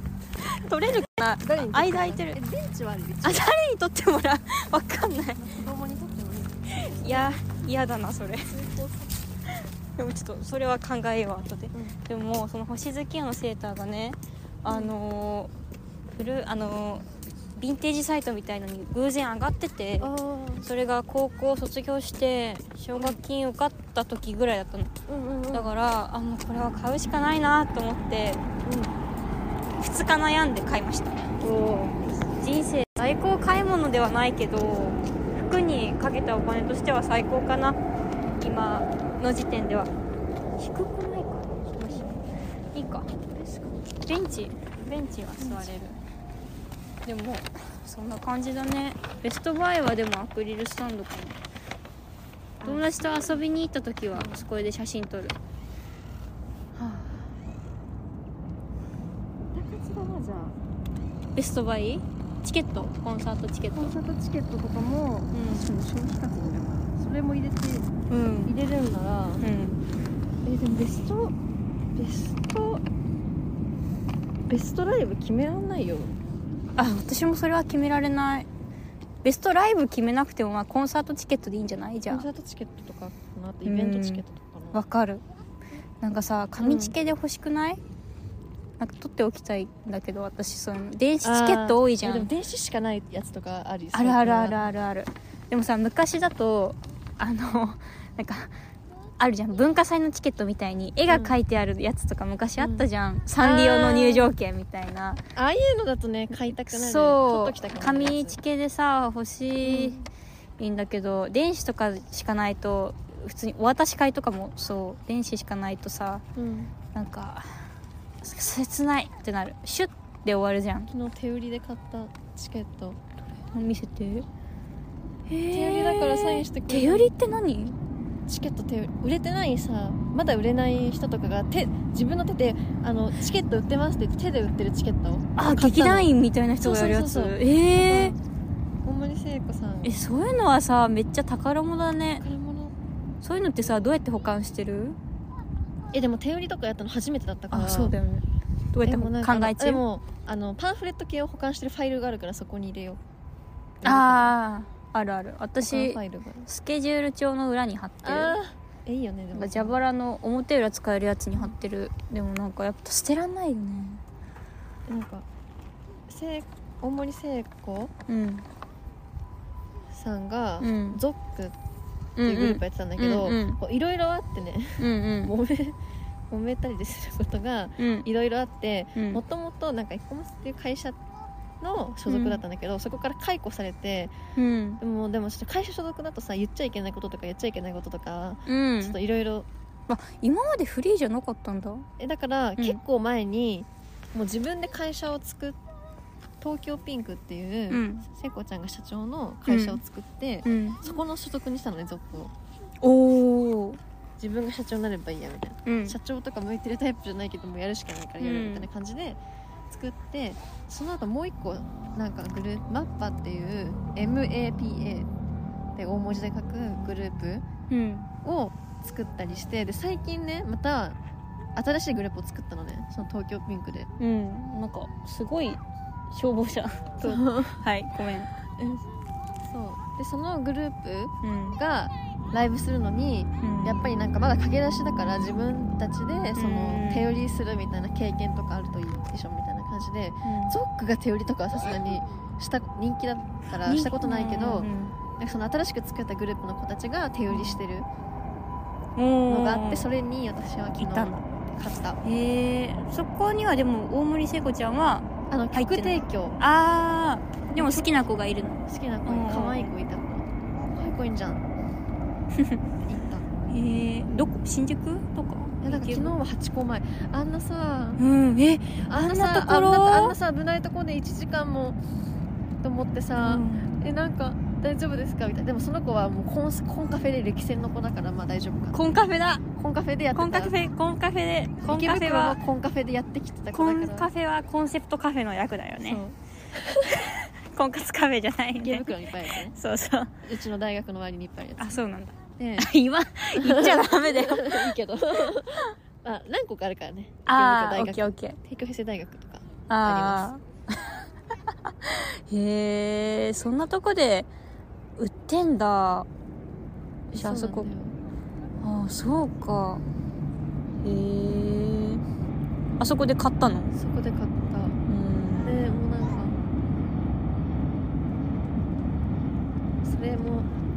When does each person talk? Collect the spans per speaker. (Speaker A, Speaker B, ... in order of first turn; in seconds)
Speaker A: 0.4-2.4, 3.2-5.6, 6.7-8.5, 10.0-15.5, 16.2-20.1, 20.6-24.9, 25.5-28.4, 29.8-31.2, 32.4-37.8, 38.4-39.9, 40.6-42.1, 42.7-43.1, 44.0-46.0, 47.1-51.4, 52.6-55.4, 56.8-57.3, 61.4-64.0, 65.3-65.7, 68.1-68.5, 69.4-69.8, 76.8-78.5, 79.2-82.3, 83.7-85.2, 86.0-87.8, 88.8-92.3, 93.9-98.5, 99.2-105.2, 106.3-110.0, 110.6-116.2, 116.9-117.5, 118.2-120.9, 123.5-124.3, 125.3-127.8, 135.4-138.2, 139.8-142.2, 143.2-145.0, 147.5-149.8, 153.8-158.4, 159.3-164.0, 168.1-168.5, 170.6-171.0, 172.2-173.6, 174.8-175.3, 177.8-178.1, 182.1-182.4, 184.4-184.8, 188.5-189.0, 189.9-191.9, 197.7-198.1, 199.5-199.8, 200.4-200.8, 202.8-203.8, 205.7-206.0, 208.2-208.7, 217.7-218.1, 224.0-225.6, 226.1-228.3, 231.2-231.6, 233.4-233.8, 236.4-237.1, 240.2-240.6, 243.6-245.0, 247.3-247.6, 249.0-249.9, 250.8-251.2, 252.0-259.7, 263.5-266.1, 268.0-270.2, 273.1-273.8, 278.7-279.4, 280.1-282.4, 283.5-286.0, 286.9-290.1, 291.6-295.7, 297.3-298.4, 299.7-301.0, 301.8-304.3, 305.0-306.1, 307.1-307.7, 308.6-309.8, 310.8-312.0, 312.8-313.7, 314.9-315.8
Speaker B: 1.4-3.5, 5.4-7.4, 8.5-9.2, 11.7-12.0, 14.7-14.9, 20.0-20.7, 25.1-25.7, 28.6-28.9, 31.4-32.0, 41.8-42.2, 43.3-43.8, 45.4-45.7, 52.6-52.9, 54.1-54.5, 59.4-60.6, 63.8-67.9, 68.5-69.5, 70.4-71.3, 72.0-72.8, 74.5-76.2, 82.1-84.8, 86.6-87.0, 91.2-94.7, 101.1-101.4, 102.6-102.8, 103.4-104.3, 105.4-108.4, 109.7-110.0, 116.4-116.7, 120.9-123.0, 125.5-127.1, 128.3-136.1, 136.6-138.2, 138.8-140.0, 142.2-142.7, 145.9-148.0, 148.8-153.0, 153.8-154.3, 155.6-156.5, 158.0-159.8, 164.9-165.2, 166.1-167.9, 169.9-171.6, 172.2-175.8, 176.3-181.0, 181.6-184.1, 184.8-189.5, 192.0-195.6, 196.4-202.3, 204.2-215.1, 215.8-217.4, 218.2-221.0, 221.6-223.9, 227.0-227.6, 228.6-228.8, 229.4-247.9, 249.3-252.0, 255.3-256.4, 257.5-258.0, 258.7-261.4, 262.8-263.3, 265.6-268.0, 268.9-271.8, 272.6-278.8, 279.6-280.5, 281.6-284.1, 285.8-287.0, 288.6-289.6, 290.2-291.8, 292.4-292.7, 293.4-300.3, 307.2-308.0, 313.7-314.8, 315.4-316.4, 319.8-320.5